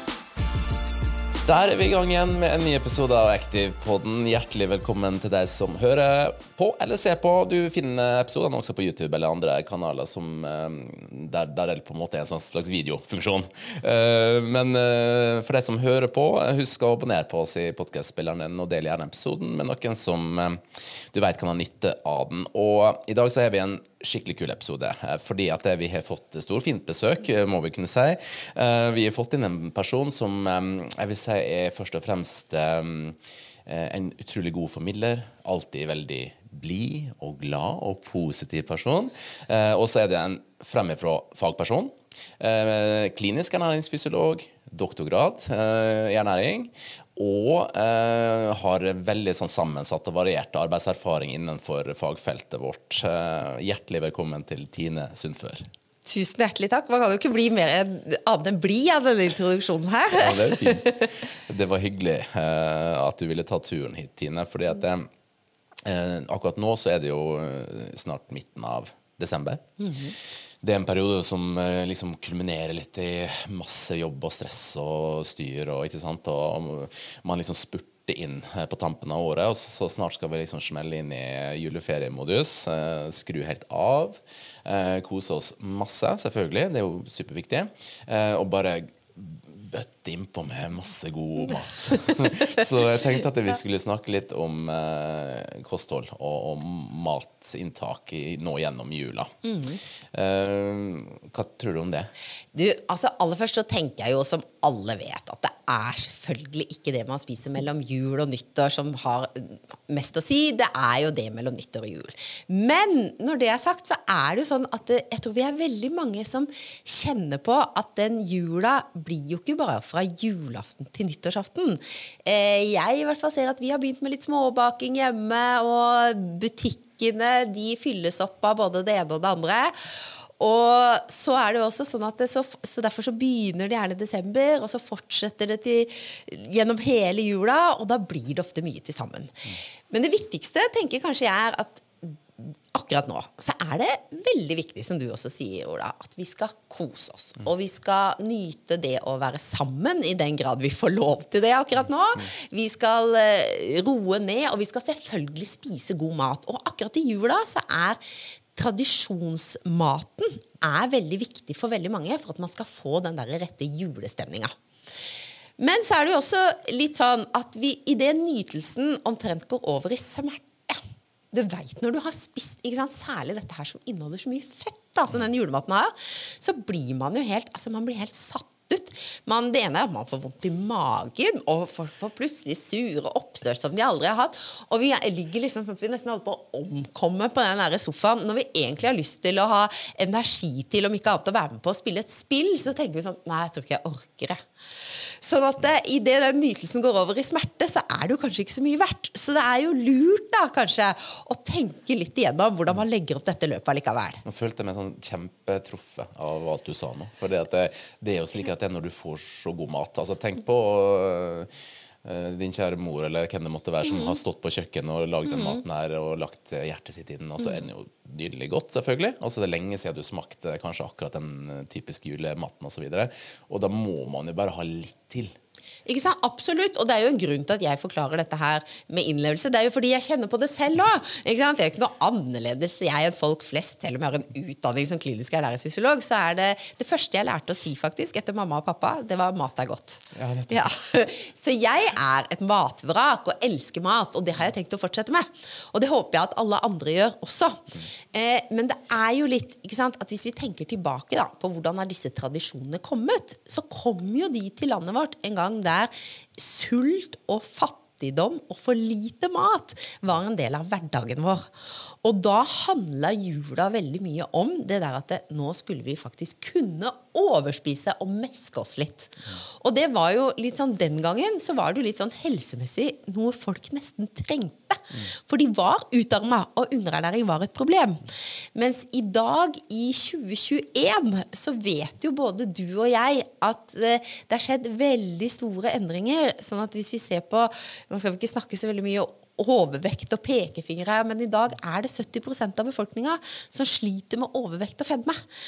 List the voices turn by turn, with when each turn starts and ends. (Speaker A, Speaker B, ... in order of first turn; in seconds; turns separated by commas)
Speaker A: 1.4-55.7, Speaker B: 56.0-61.1, Speaker A: 60.1-65.1, Speaker A: 65.8-69.7, Speaker B: 69.8-70.1, Speaker A: 70.6-99.3, Speaker B: 99.4-99.8, Speaker A: 100.1-102.1, Speaker B: 102.5-158.0, Speaker B: 158.5-164.5, Speaker B: 165.6-204.2, Speaker A: 204.2-211.5, Speaker A: 212.0-225.3, Speaker B: 225.8-261.5, Speaker A: 240.2-240.5, Speaker B: 262.0-295.2